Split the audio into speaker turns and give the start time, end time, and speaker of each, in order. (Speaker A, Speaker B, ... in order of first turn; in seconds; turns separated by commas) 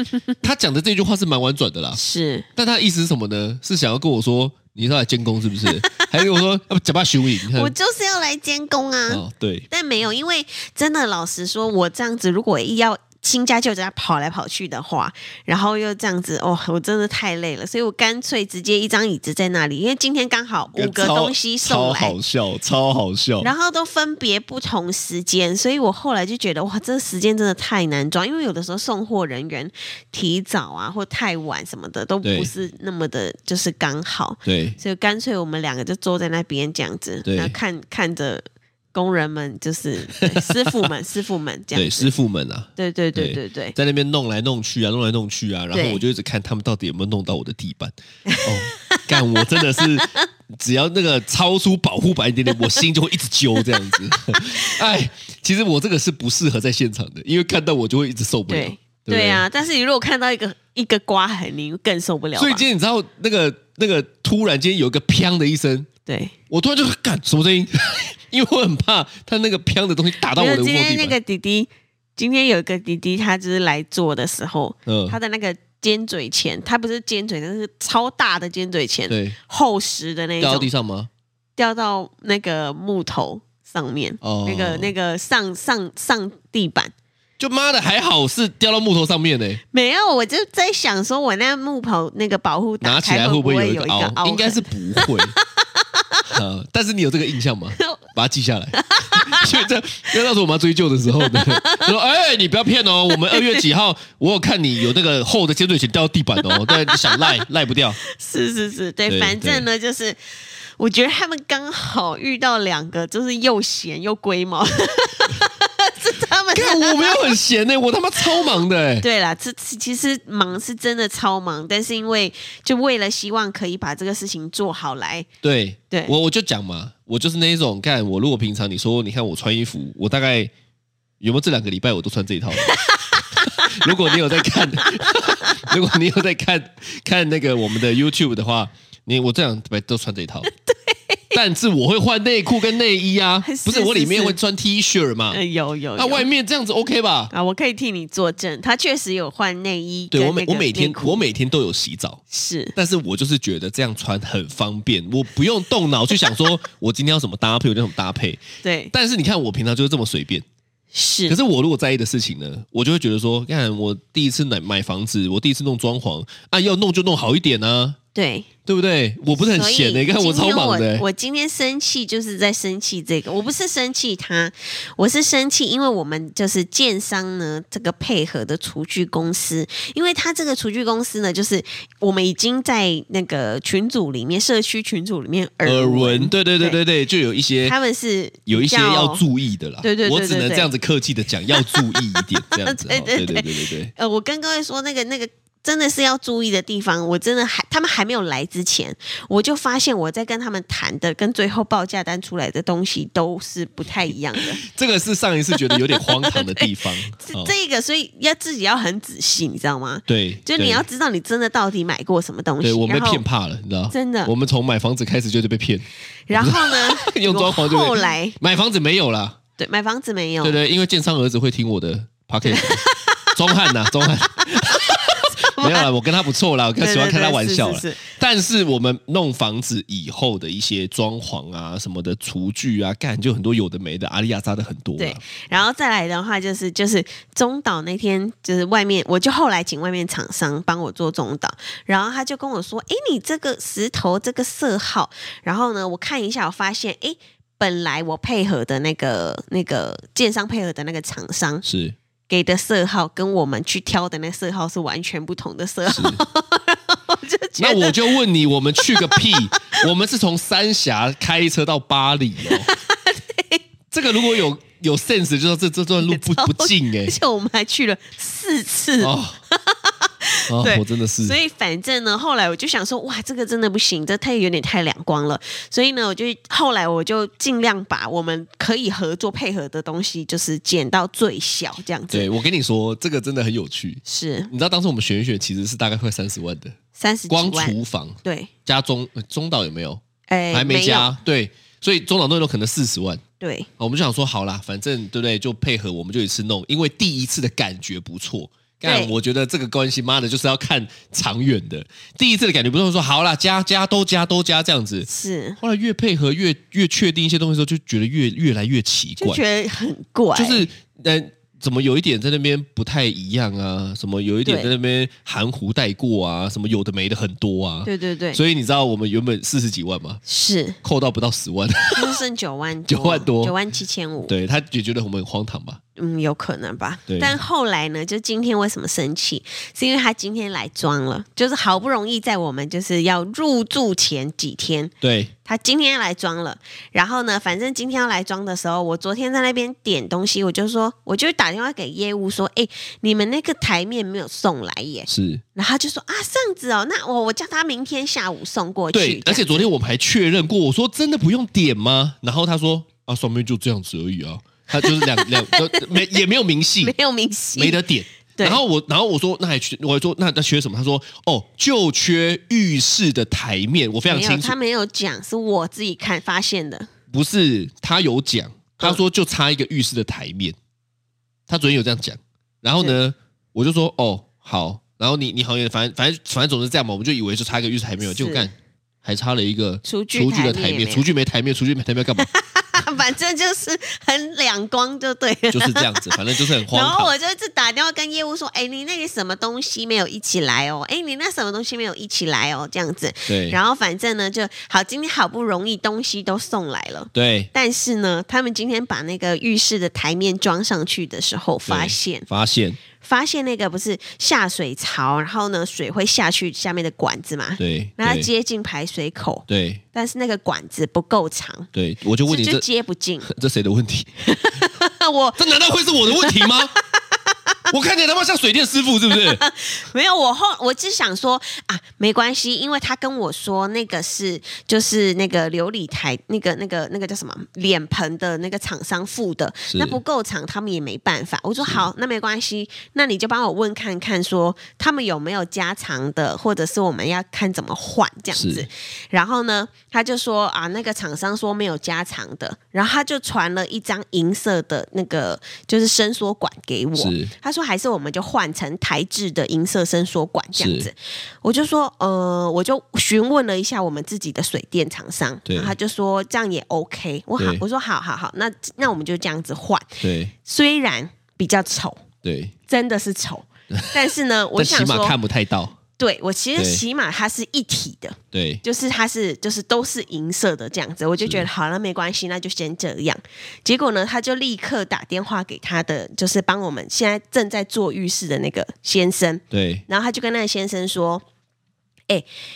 Speaker A: 0.4-2.0, Speaker B: 1.9-2.5, Speaker A: 2.6-7.7, Speaker B: 5.7-6.2, Speaker B: 7.5-22.2, Speaker A: 9.1-9.7, Speaker A: 20.8-23.5, Speaker B: 23.4-42.1, Speaker A: 32.2-32.5, Speaker A: 34.5-34.8, Speaker A: 37.2-37.5, Speaker A: 40.2-40.9, Speaker A: 41.8-59.5, Speaker B: 42.8-43.8, Speaker B: 45.7-46.0, Speaker B: 48.3-50.2, Speaker B: 53.6-54.8, Speaker B: 58.5-62.6, Speaker A: 62.4-65.9, Speaker B: 66.1-66.3, Speaker A: 66.5-71.2, Speaker B: 70.3-80.7, Speaker A: 74.9-75.2, Speaker A: 79.1-79.4, Speaker A: 80.4-81.1, Speaker B: 81.6-86.9, Speaker A: 84.2-84.9, Speaker A: 87.4-89.6, Speaker B: 89.7-96.3, Speaker A: 92.8-95.3, Speaker A: 96.3-108.0, Speaker B: 97.8-98.0, Speaker B: 98.8-99.7, Speaker B: 101.2-101.9, Speaker B: 103.1-103.7, Speaker B: 106.4-107.4, Speaker B: 108.0-110.2, Speaker A: 109.1-109.7, Speaker B: 110.8-117.4, Speaker A: 116.5-119.1, Speaker B: 118.2-125.3, Speaker A: 125.4-130.5, Speaker A: 131.2-132.8, Speaker B: 132.6-135.7, Speaker A: 133.4-140.5, Speaker B: 140.5-141.4, Speaker A: 141.3-145.4, Speaker B: 143.4-144.4, Speaker B: 145.3-146.3, Speaker A: 146.0-147.3, Speaker B: 147.3-151.2, Speaker A: 150.1-152.2, Speaker B: 152.3-152.8, Speaker A: 152.8-160.4, Speaker B: 158.6-158.9, Speaker B: 160.9-161.4, Speaker A: 161.3-168.0, Speaker B: 168.2-168.5, Speaker A: 168.7-171.1, Speaker B: 169.3-186.8, Speaker A: 185.6-187.8, Speaker B: 187.6-189.2, Speaker A: 188.5-193.9, Speaker B: 189.8-190.7, Speaker B: 191.5-204.6, Speaker A: 204.4-207.5, Speaker B: 205.6-213.2, Speaker A: 210.1-210.8, Speaker A: 212.6-219.4, Speaker B: 213.9-214.3, Speaker B: 216.3-218.4, Speaker B: 219.6-220.6, Speaker A: 220.4-235.2, Speaker B: 222.4-225.9, Speaker B: 226.8-228.0, Speaker B: 235.0-251.6, Speaker A: 251.7-252.0, Speaker B: 252.3-258.2, Speaker A: 255.9-256.2, Speaker A: 257.6-262.7, Speaker B: 258.8-259.8, Speaker B: 262.5-263.6, Speaker A: 263.9-267.2, Speaker B: 266.0-282.3, Speaker A: 269.0-269.4, Speaker A: 270.5-271.4, Speaker A: 282.1-286.8, Speaker B: 284.1-284.5, Speaker B: 287.0-288.5, Speaker A: 287.3-290.0, Speaker B: 290.3-291.2, Speaker A: 290.5-293.2, Speaker B: 293.4-293.7, Speaker A: 293.8-305.1, Speaker B: 298.9-299.1, Speaker B: 305.1-305.6, Speaker A: 305.6-309.4, Speaker B: 309.2-310.7, Speaker A: 310.4-320.2, Speaker B: 314.4-314.7, Speaker B: 317.9-318.4, Speaker B: 320.3-320.8, Speaker A: 320.8-322.2, Speaker B: 322.0-324.3, Speaker A: 322.9-323.6, Speaker A: 324.3-325.8, Speaker B: 326.0-334.9, Speaker A: 327.1-327.4, Speaker A: 335.0-335.3, Speaker B: 335.4-349.7, Speaker A: 345.1-345.4, Speaker A: 348.9-356.9, Speaker B: 354.8-356.2, Speaker B: 356.8-357.8, Speaker A: 357.6-364.6, Speaker B: 358.4-358.6, Speaker B: 364.1-366.9, Speaker A: 367.1-370.6, Speaker A: 371.5-382.3, Speaker B: 378.0-378.5, Speaker B: 379.8-381.1, Speaker B: 382.2-402.3, Speaker A: 385.5-387.1, Speaker A: 393.3-393.6, Speaker A: 397.1-397.5, Speaker A: 401.7-402.8, Speaker B: 403.0-411.7, Speaker A: 407.6-408.3, Speaker A: 409.5-409.8, Speaker A: 411.7-412.6, Speaker B: 412.3-413.3, Speaker A: 413.3-414.1, Speaker B: 414.2-417.6, Speaker A: 415.4-416.8, Speaker A: 417.7-419.4, Speaker B: 419.1-462.0, Speaker A: 429.7-430.0, Speaker A: 438.3-438.7, Speaker A: 447.0-447.3, Speaker A: 450.6-450.9, Speaker A: 455.5-455.8, Speaker A: 457.4-457.6, Speaker A: 460.0-460.3, Speaker A: 462.2-462.5, Speaker B: 462.7-465.2, Speaker A: 463.7-465.8, Speaker B: 466.0-481.2, Speaker A: 466.6-466.8, Speaker A: 468.3-468.6, Speaker A: 479.5-479.8